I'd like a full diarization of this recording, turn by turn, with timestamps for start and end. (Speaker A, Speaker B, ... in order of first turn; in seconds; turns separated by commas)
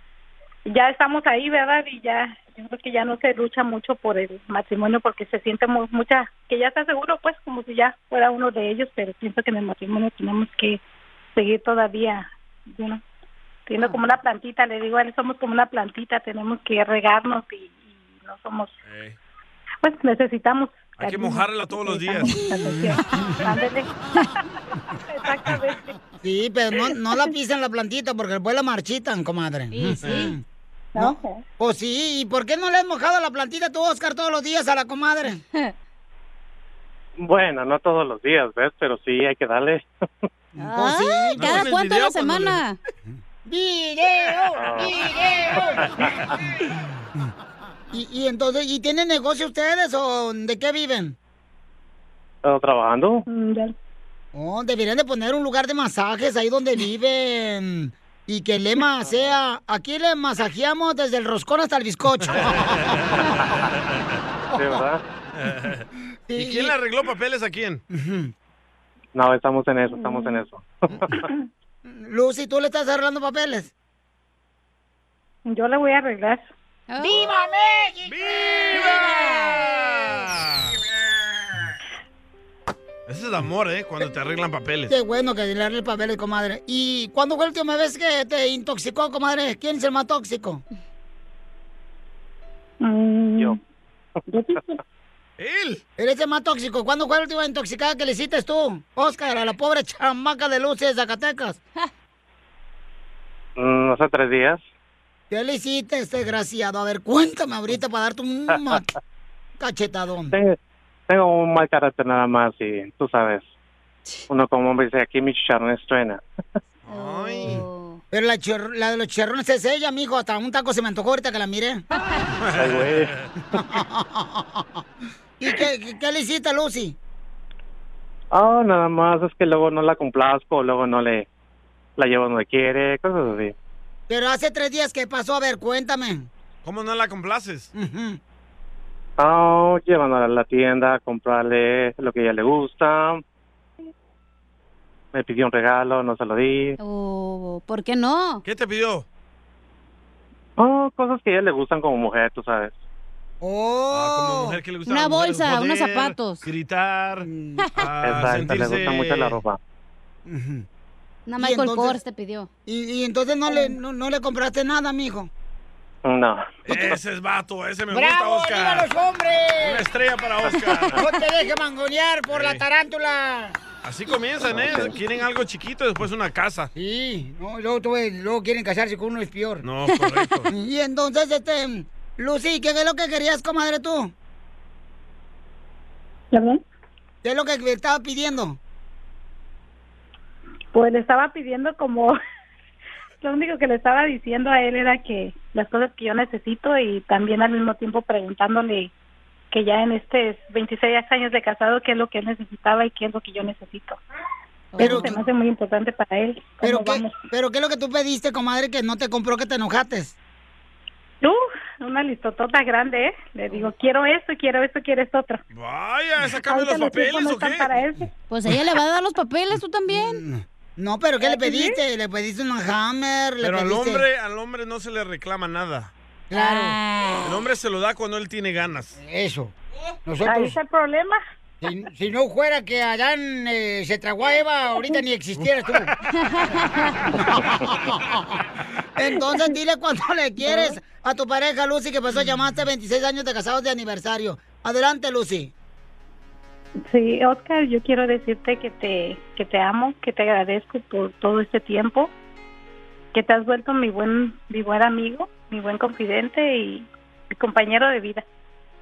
Speaker A: 0.7-10.8, Speaker A: 11.3-13.0, Speaker A: 13.7-18.8, Speaker B: 18.9-19.2, Speaker A: 19.8-23.9, Speaker B: 21.0-22.4, Speaker C: 22.6-23.5, Speaker A: 25.1-26.0, Speaker C: 26.2-30.4, Speaker D: 29.7-30.4, Speaker B: 30.0-30.3, Speaker A: 30.9-31.4, Speaker C: 31.0-35.4, Speaker E: 37.2-39.9, Speaker C: 40.6-41.7, Speaker D: 40.6-42.8, Speaker B: 41.4-42.6, Speaker C: 43.5-46.1, Speaker E: 44.6-44.9, Speaker C: 47.9-51.2, Speaker E: 52.5-53.2, Speaker A: 53.3-53.7, Speaker C: 54.3-63.0, Speaker B: 62.2-63.3, Speaker E: 64.5-65.0, Speaker B: 65.3-67.8, Speaker C: 66.3-66.7, Speaker C: 67.9-68.3, Speaker E: 69.2-71.2, Speaker A: 70.0-70.4, Speaker C: 71.8-73.7, Speaker A: 75.5-76.5, Speaker D: 76.9-77.3, Speaker C: 77.0-79.5, Speaker B: 78.1-80.8, Speaker D: 78.7-79.7, Speaker B: 83.1-84.9, Speaker C: 84.9-90.6, Speaker A: 92.8-93.6, Speaker A: 94.3-94.8, Speaker B: 95.4-95.8, Speaker C: 96.0-101.6, Speaker E: 103.6-104.6, Speaker C: 105.3-108.9, Speaker C: 109.6-110.3, Speaker E: 110.3-110.6, Speaker E: 111.1-113.5, Speaker E: 114.3-116.2, Speaker B: 116.9-117.6, Speaker D: 116.9-118.0, Speaker C: 117.5-121.8, Speaker B: 122.4-123.3, Speaker E: 122.5-123.1, Speaker C: 123.5-124.8, Speaker C: 125.4-127.0, Speaker E: 128.3-131.3, Speaker E: 132.0-133.5, Speaker C: 134.1-136.3, Speaker B: 136.6-137.7, Speaker C: 137.8-138.2, Speaker E: 139.2-143.2, Speaker E: 145.1-146.8, Speaker D: 146.8-148.4, Speaker B: 148.4-149.1, Speaker E: 150.6-152.7, Speaker C: 153.4-154.6, Speaker B: 153.9-159.4, Speaker D: 154.9-156.4, Speaker C: 157.2-157.7, Speaker E: 158.0-159.6, Speaker C: 160.3-160.7, Speaker D: 161.3-162.5, Speaker C: 161.4-162.0, Speaker C: 162.7-165.3, Speaker E: 166.1-166.9, Speaker B: 166.7-168.9, Speaker C: 167.9-169.8, Speaker B: 169.6-171.1, Speaker C: 170.9-173.6, Speaker B: 172.3-172.7, Speaker B: 173.8-176.7, Speaker E: 174.5-174.9, Speaker C: 176.8-179.7, Speaker B: 179.6-180.5, Speaker C: 180.5-184.1, Speaker A: 186.3-186.6, Speaker C: 187.2-188.6, Speaker A: 190.7-192.2, Speaker A: 193.2-198.9, Speaker A: 199.5-204.0, Speaker D: 204.7-205.2, Speaker A: 204.8-207.2, Speaker C: 204.8-205.2, Speaker C: 206.6-210.2, Speaker A: 211.2-215.4, Speaker B: 215.5-217.7, Speaker A: 216.4-218.1, Speaker D: 218.3-220.2, Speaker C: 219.9-224.0, Speaker A: 221.2-221.8, Speaker B: 223.4-225.9, Speaker C: 226.3-226.8, Speaker D: 226.3-227.4, Speaker B: 227.2-228.9, Speaker C: 229.0-229.5, Speaker C: 230.1-230.6, Speaker A: 230.2-231.2, Speaker C: 231.6-235.9, Speaker D: 236.2-237.0, Speaker C: 237.1-238.4, Speaker C: 239.0-245.5, Speaker A: 240.4-240.8, Speaker A: 246.9-252.1, Speaker A: 253.1-258.2